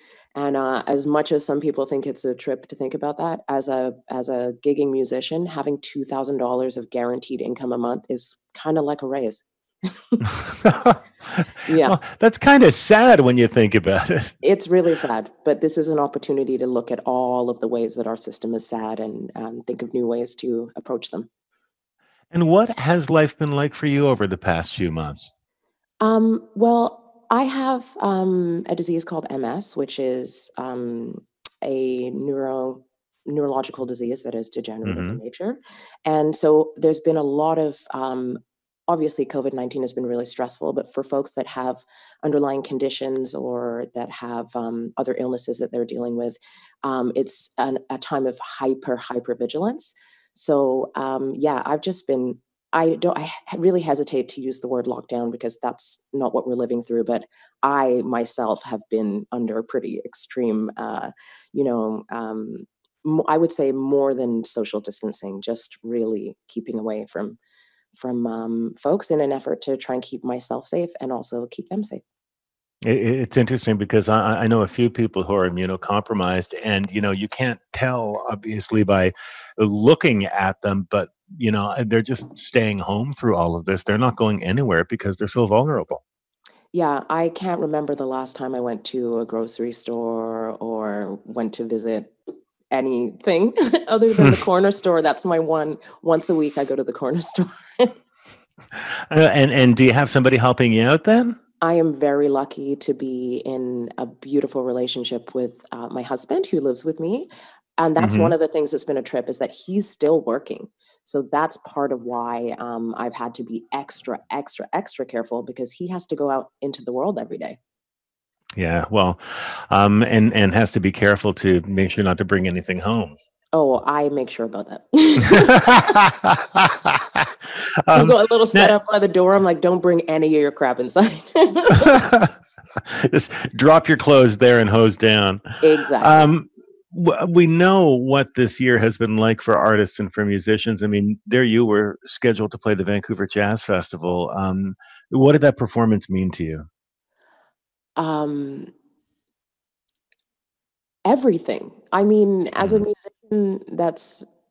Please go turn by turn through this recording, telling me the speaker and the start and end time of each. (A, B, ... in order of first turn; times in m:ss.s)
0:00.3-0:09.4 A
0:10.5-0:14.3 B
0:11.7-0:12.0 A
0:14.4-0:21.3 A
0:22.3-0:25.3 B
0:26.0-1:07.4 A
0:34.8-0:35.2 B
1:07.9-1:12.0 A
1:12.8-1:26.0 B
1:26.7-1:32.1 A
1:32.7-1:37.9 A
1:39.1-1:41.4 B
1:41.6-1:57.6 A
1:48.0-1:48.3 B
1:58.6-2:03.2 B
2:03.5-2:05.8 A
2:05.3-2:07.3 B
2:07.9-2:08.7 B
2:07.9-2:11.8 A
2:11.8-2:12.3 B
2:13.0-2:15.4 B
2:15.6-2:16.3 A
2:16.0-2:26.7 B
2:28.0-2:28.7 A
2:31.0-2:34.2 A
2:32.6-2:32.8 B